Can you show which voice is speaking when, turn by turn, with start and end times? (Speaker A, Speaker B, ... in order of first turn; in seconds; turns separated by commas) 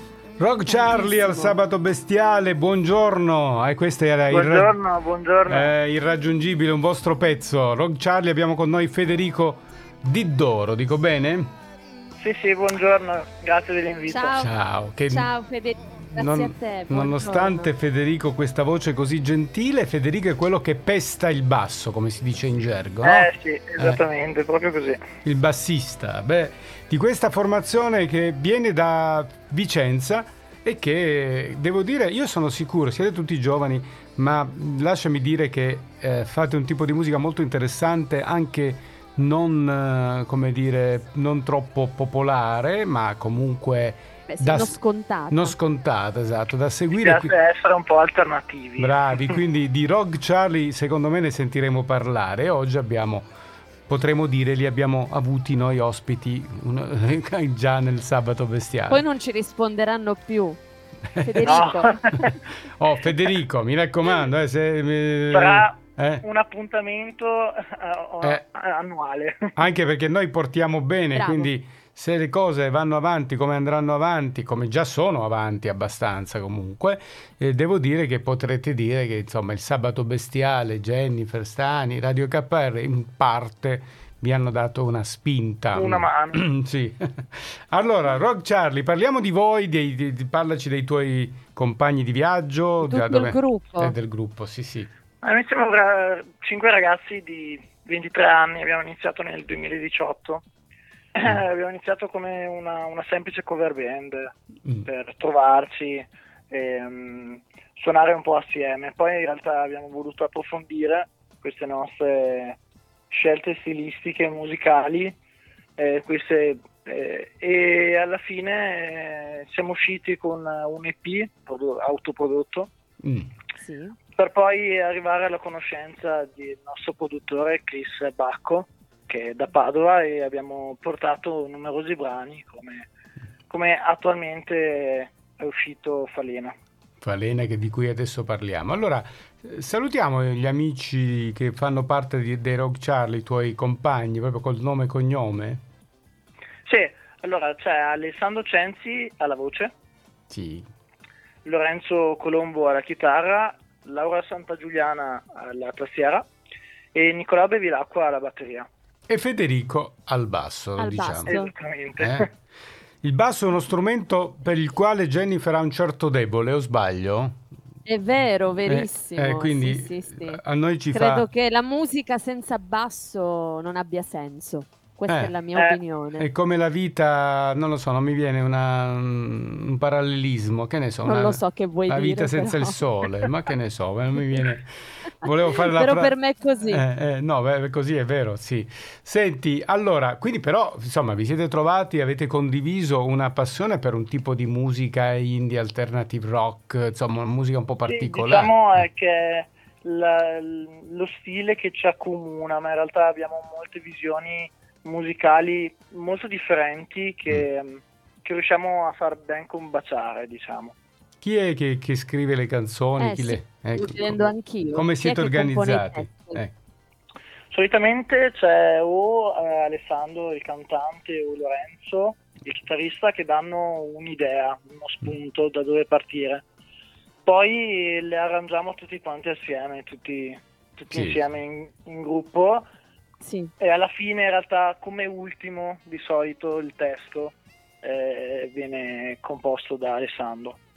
Speaker A: 0.4-4.8, Speaker B: 0.7-1.6, Speaker C: 4.3-5.8, Speaker A: 5.5-11.5, Speaker C: 12.2-14.5, Speaker B: 14.1-14.5, Speaker A: 14.3-15.3, Speaker B: 15.1-17.7, Speaker A: 16.0-23.3, Speaker C: 23.0-25.0, Speaker A: 25.2-44.8, Speaker B: 44.3-45.6, Speaker A: 45.3-47.3, Speaker C: 47.0-49.4, Speaker A: 48.8-53.2, Speaker A: 53.9-59.0, Speaker B: 58.9-60.6, Speaker A: 61.2-66.2, Speaker B: 61.2-61.9, Speaker C: 61.5-62.3, Speaker C: 65.3-69.5, Speaker A: 69.6-94.9, Speaker B: 71.1-71.5, Speaker C: 85.7-86.4, Speaker B: 92.8-94.0, Speaker C: 95.2-100.4, Speaker C: 101.2-104.3, Speaker C: 104.9-112.6, Speaker C: 113.1-115.2, Speaker C: 115.8-122.7, Speaker A: 123.0-123.3, Speaker B: 123.6-124.0, Speaker C: 124.1-132.9, Speaker C: 133.5-136.6, Speaker A: 137.0-145.6, Speaker C: 146.7-149.7, Speaker A: 150.3-150.7, Speaker C: 151.4-156.2, Speaker C: 156.9-158.7, Speaker A: 159.1-161.4, Speaker B: 160.8-161.5, Speaker C: 161.3-162.3, Speaker A: 162.0-162.3, Speaker A: 163.0-167.4, Speaker B: 167.8-170.4, Speaker A: 168.7-171.3, Speaker B: 170.9-176.2, Speaker A: 175.1-175.3, Speaker C: 175.6-175.8, Speaker A: 176.2-186.1, Speaker B: 181.0-183.3, Speaker B: 185.7-186.8, Speaker A: 186.7-198.9, Speaker C: 197.9-210.8, Speaker A: 211.2-216.6, Speaker B: 213.0-216.4, Speaker C: 217.5-226.4, Speaker C: 227.2-232.6, Speaker A: 230.9-231.2, Speaker B: 233.2-233.5, Speaker C: 233.6-240.6